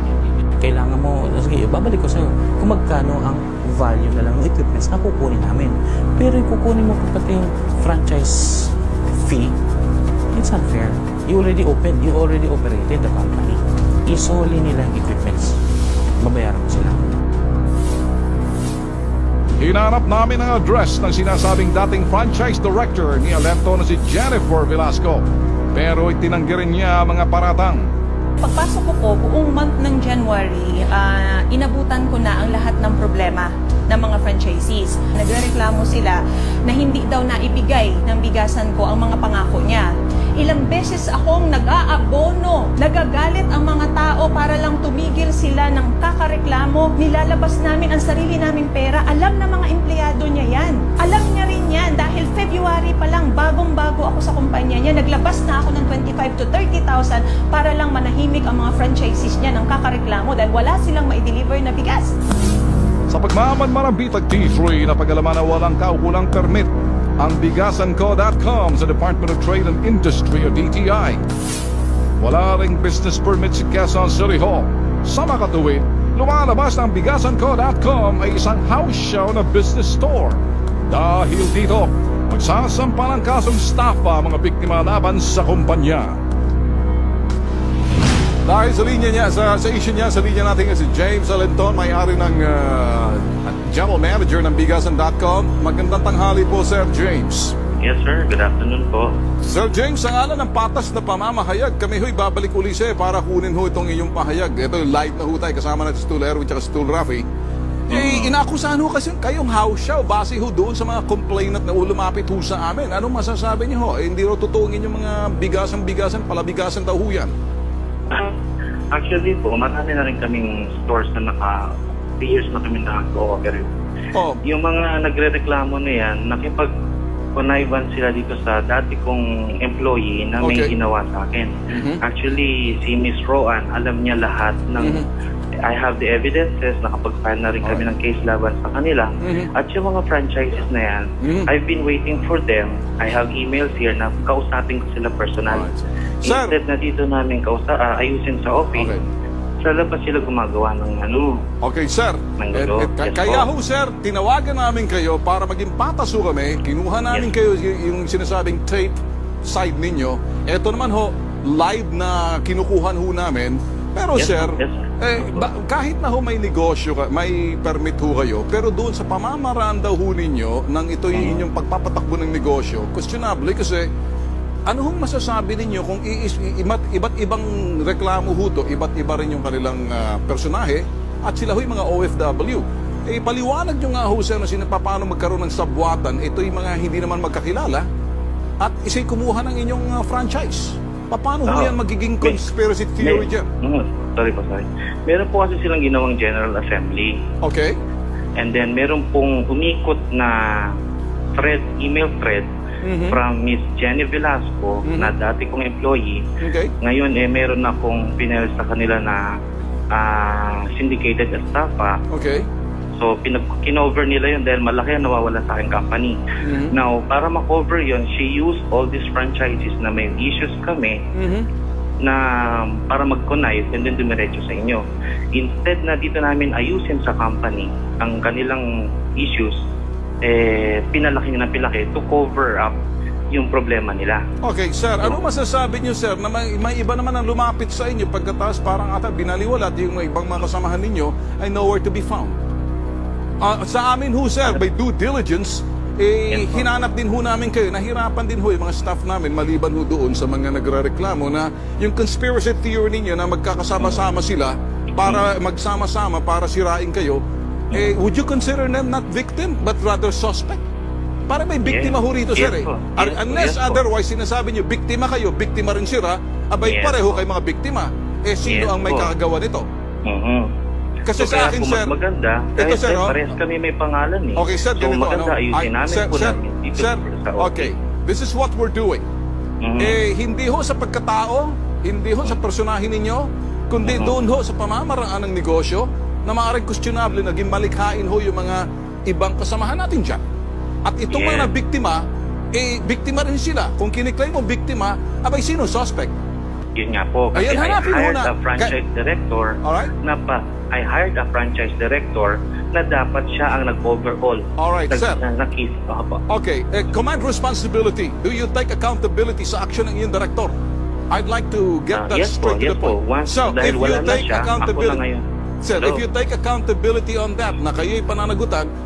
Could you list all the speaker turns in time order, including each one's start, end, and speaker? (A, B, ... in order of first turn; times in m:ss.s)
0:00.6-0:09.6 A
0:10.3-0:15.6 A
0:16.2-0:17.0 A
0:19.6-0:27.8 B
0:28.4-1:02.1 C
1:03.1-1:11.2 B
1:12.2-1:26.2 B
1:28.4-1:37.5 B
1:37.8-1:39.1 D
1:39.4-1:47.2 B
1:47.9-1:57.3 B
1:47.9-1:48.3 D
1:58.9-2:03.7 D
2:04.1-2:04.4 B
2:04.5-2:06.7 D
2:07.4-2:15.0 D
2:10.4-2:10.7 B
2:11.7-2:12.0 B
2:14.8-2:15.0 B
2:15.6-2:25.6 D
2:19.2-2:19.5 B
2:21.2-2:21.5 B
2:25.5-2:26.6 B
2:26.2-2:28.9 D
2:28.8-2:29.0 B
2:29.6-2:31.4 D
2:31.6-2:53.9 B
2:32.4-2:33.5 D
2:44.2-2:45.5 D
2:51.1-2:51.4 D
2:54.7-3:07.8 B
3:08.6-3:13.5 B
3:11.5-3:12.4 D
3:13.0-3:17.2 D
3:17.4-3:17.8 B
3:18.4-3:20.8 D
3:21.4-3:22.5 D
3:22.8-3:23.2 B
3:23.1-3:26.2 D
3:24.8-3:25.1 B
3:26.4-3:26.7 B
3:26.8-3:29.2 D
3:29.9-3:32.0 D
3:32.1-3:32.5 B
3:33.0-3:36.2 D
3:36.4-3:36.7 B
3:36.7-3:41.0 D
3:41.1-3:41.4 B
3:42.0-3:44.8 D
3:45.3-3:48.6 D
3:49.2-3:49.5 D
3:50.2-3:52.8 D
3:53.3-3:54.2 D
3:54.4-4:02.4 B
4:03.4-4:17.2 B
4:06.3-4:06.7 D
4:17.7-4:20.6 B
4:21.3-4:29.6 B
4:21.6-4:23.8 D
4:26.6-4:27.2 D
4:28.4-4:29.1 D
4:30.1-4:30.5 D
4:31.0-4:31.9 B
4:31.1-4:37.7 D
4:32.6-4:33.2 B
4:34.4-4:39.0 B
4:39.6-4:39.9 D
4:39.8-4:50.2 B
4:43.8-4:44.1 D
4:50.8-4:52.0 B
4:51.1-4:51.5 D
4:52.5-4:56.1 B
4:56.8-5:06.2 D
4:57.3-4:58.7 B
4:59.6-4:59.9 B
5:04.6-5:05.2 B
5:06.3-5:10.5 B
5:11.1-5:15.0 B
5:11.9-5:16.0 D
5:15.6-5:18.7 B